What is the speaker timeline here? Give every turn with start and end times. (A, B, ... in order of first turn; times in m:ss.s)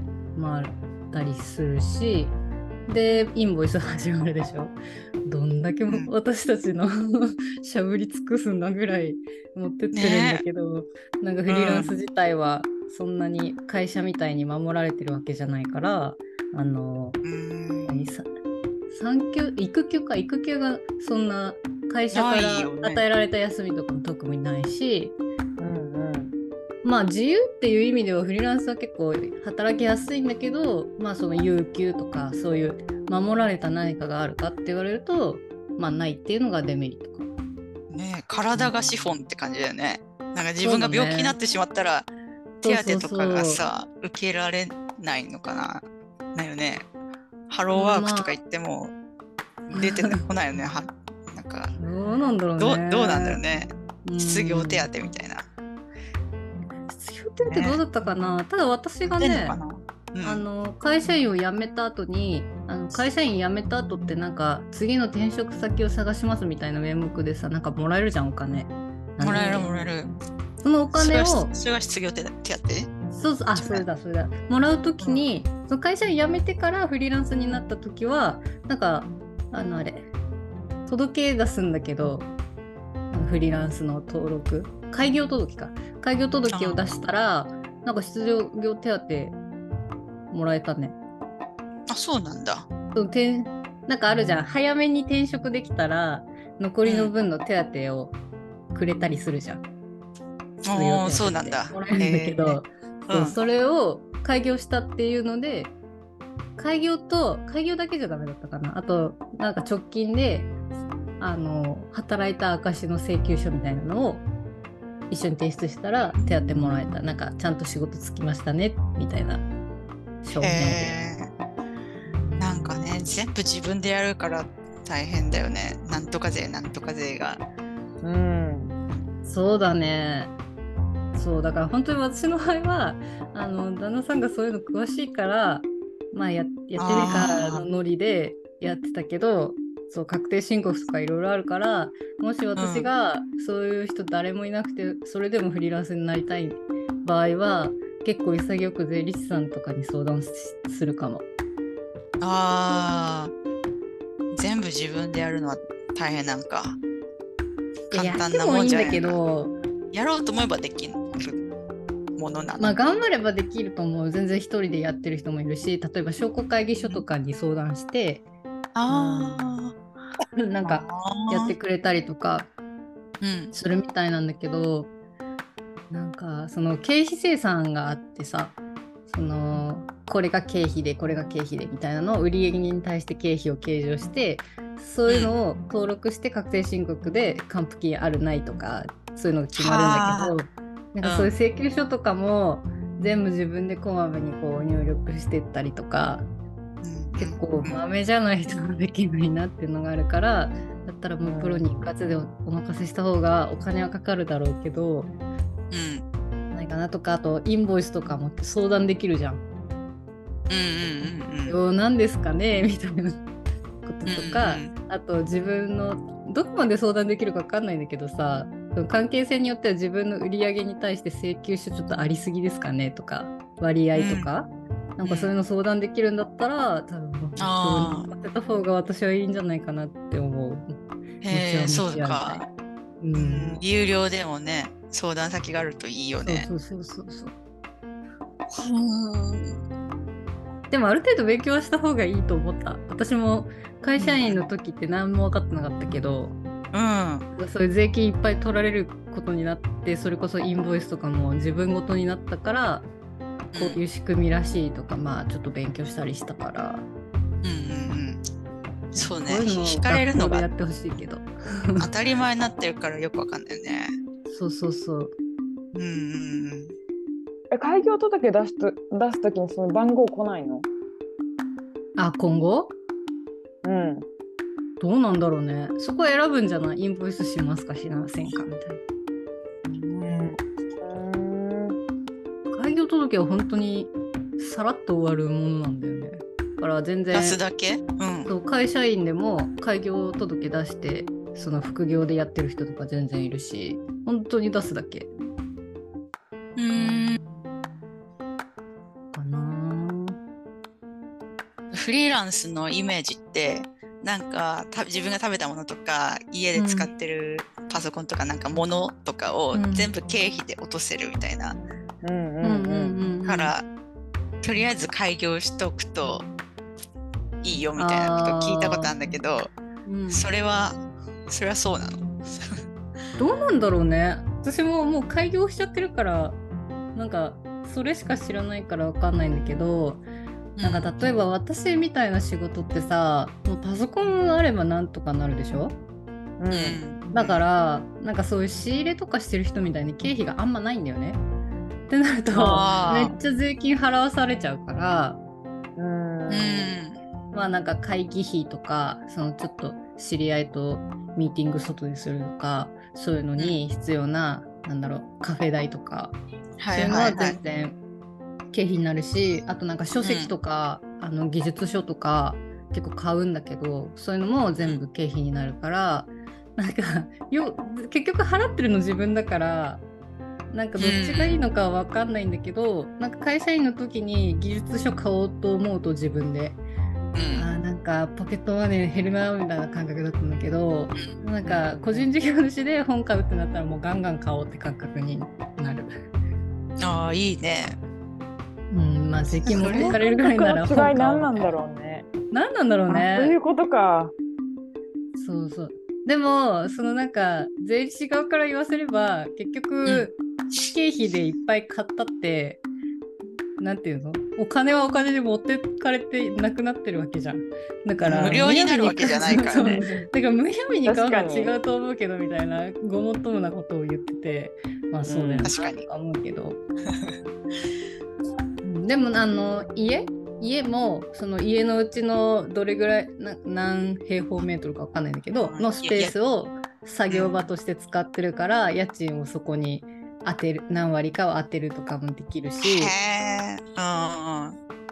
0:00.3-0:02.4 A
0:02.9-0:17.2 A
0:09.9-0:10.4 B
0:11.5-0:11.9 B
0:17.2-0:18.0 B
0:17.8-0:18.2 A
0:18.9-0:25.2 A
0:22.1-0:23.0 B
0:25.6-0:26.3 C
0:26.8-0:37.3 A
0:37.9-0:42.1 B
0:38.5-0:39.1 A
0:40.6-0:41.4 A
0:42.6-0:43.6 A
0:42.6-0:46.9 B
0:47.5-0:48.9 B
0:47.7-0:48.4 A
0:49.7-0:50.2 A
0:49.7-0:51.7 B
0:51.8-0:53.4 A
0:52.6-0:55.5 B
0:54.0-0:54.9 A
0:56.9-0:59.6 A
0:57.4-0:57.8 B
0:59.2-1:00.4 B
1:00.2-1:09.9 A
1:09.2-1:10.1 B
1:10.6-1:11.5 A
1:10.9-1:12.9 B
1:13.1-1:20.1 A
1:13.6-1:13.8 B
1:20.8-1:22.3 A
1:23.1-1:29.4 A
1:26.5-1:26.8 B
1:30.3-1:31.0 A
1:31.9-1:32.7 B
1:32.9-1:38.2 A
1:36.8-1:37.1 B
1:38.7-1:39.6 A
1:40.6-1:43.3 B
1:40.7-1:45.7 A
1:46.6-1:50.5 A
1:51.2-1:54.2 A
1:55.1-1:59.4 A
2:00.2-2:00.9 A
2:00.4-2:01.3 B
2:02.1-2:02.8 A
2:02.4-2:07.4 B
2:08.0-2:08.7 C
2:09.2-2:10.3 A
2:11.1-2:31.2 A
2:16.8-2:17.6 B
2:22.6-2:22.9 B
2:32.2-2:33.3 B
2:34.3-2:36.8 B
2:37.9-2:39.2 B
2:37.9-2:39.5 A
2:39.9-2:41.4 B
2:42.2-2:42.8 B
2:42.6-2:48.2 A
2:48.7-2:49.7 B
2:48.9-2:49.6 A
2:50.4-2:52.5 A
2:50.6-2:51.5 B
2:53.2-2:53.5 B
2:53.5-2:54.9 A
2:55.9-3:16.2 A
3:05.1-3:05.3 B
3:09.6-3:10.3 B
3:11.0-3:11.3 B
3:16.8-3:17.8 B
3:17.2-3:25.1 A
3:21.2-3:21.6 C
3:25.7-3:26.0 B
3:26.5-3:29.4 A
3:30.5-3:31.6 B
3:31.5-3:33.2 A
3:33.8-3:50.8 A
3:34.0-3:34.7 B
3:43.9-3:44.3 B
3:45.0-3:45.3 B
3:47.4-3:48.1 B
3:51.2-3:52.5 B
3:51.3-3:52.5 A
3:53.0-3:53.6 A
3:53.1-3:56.5 B
3:56.2-3:57.3 A
3:58.5-3:59.6 B
4:00.7-4:06.4 A
4:04.0-4:04.4 B
4:06.7-4:07.2 B
4:07.3-4:12.9 A
4:13.5-4:13.8 B
4:13.6-4:16.8 A
4:17.4-4:18.2 B
4:18.9-4:21.9 A
4:19.0-4:20.5 B
4:21.8-4:23.9 B
4:24.3-4:25.1 A
4:25.7-4:26.7 B
4:27.5-4:30.7 C
4:32.0-4:32.7 A
4:33.6-4:34.0 C
4:34.8-4:38.8 A
4:39.6-4:41.8 C
4:42.5-4:47.4 A
4:47.1-4:48.3 B
4:48.2-4:55.1 A
4:56.6-4:57.2 B
4:56.7-4:57.7 A
4:59.1-5:00.2 A
5:01.7-5:11.6 B
5:06.5-5:06.9 A
5:09.5-5:09.9 A
5:12.0-5:13.0 C
5:12.4-5:13.5 A
5:13.2-5:13.6 B
5:14.4-5:16.2 B
5:17.4-5:19.5 B
5:17.8-5:18.9 A
5:19.8-5:20.2 A
5:20.1-5:22.6 B
5:23.2-5:26.4 A
5:26.9-5:30.0 A
5:30.6-5:30.9 B
5:30.6-5:35.8 A
5:36.4-5:36.8 C
5:36.5-5:37.4 B
5:37.1-5:41.2 A
5:41.9-5:45.2 A
5:42.4-5:42.6 C
5:42.4-5:43.2 B
5:45.8-5:46.7 C
5:46.3-5:47.0 B
5:47.3-5:56.2 A
5:56.6-5:57.4 B
5:56.7-5:57.8 A
5:58.5-6:09.8 A
6:00.0-6:00.3 B
6:10.5-6:16.6 A
6:10.8-6:11.4 B
6:17.1-6:17.5 B
6:17.4-6:25.9 A
6:21.0-6:21.7 B
6:26.8-6:27.8 B
6:28.7-6:31.5 A
6:29.4-6:30.0 B
6:29.5-6:32.1 C
6:32.3-6:33.4 A
6:32.9-6:34.1 C
6:35.2-6:42.6 A
6:43.6-6:56.6 A
6:48.0-6:49.8 B
6:50.8-6:51.5 C
6:55.0-6:55.5 C
6:55.4-6:55.9 B
6:58.6-7:12.9 A
7:05.4-7:06.1 B
7:12.6-7:14.6 B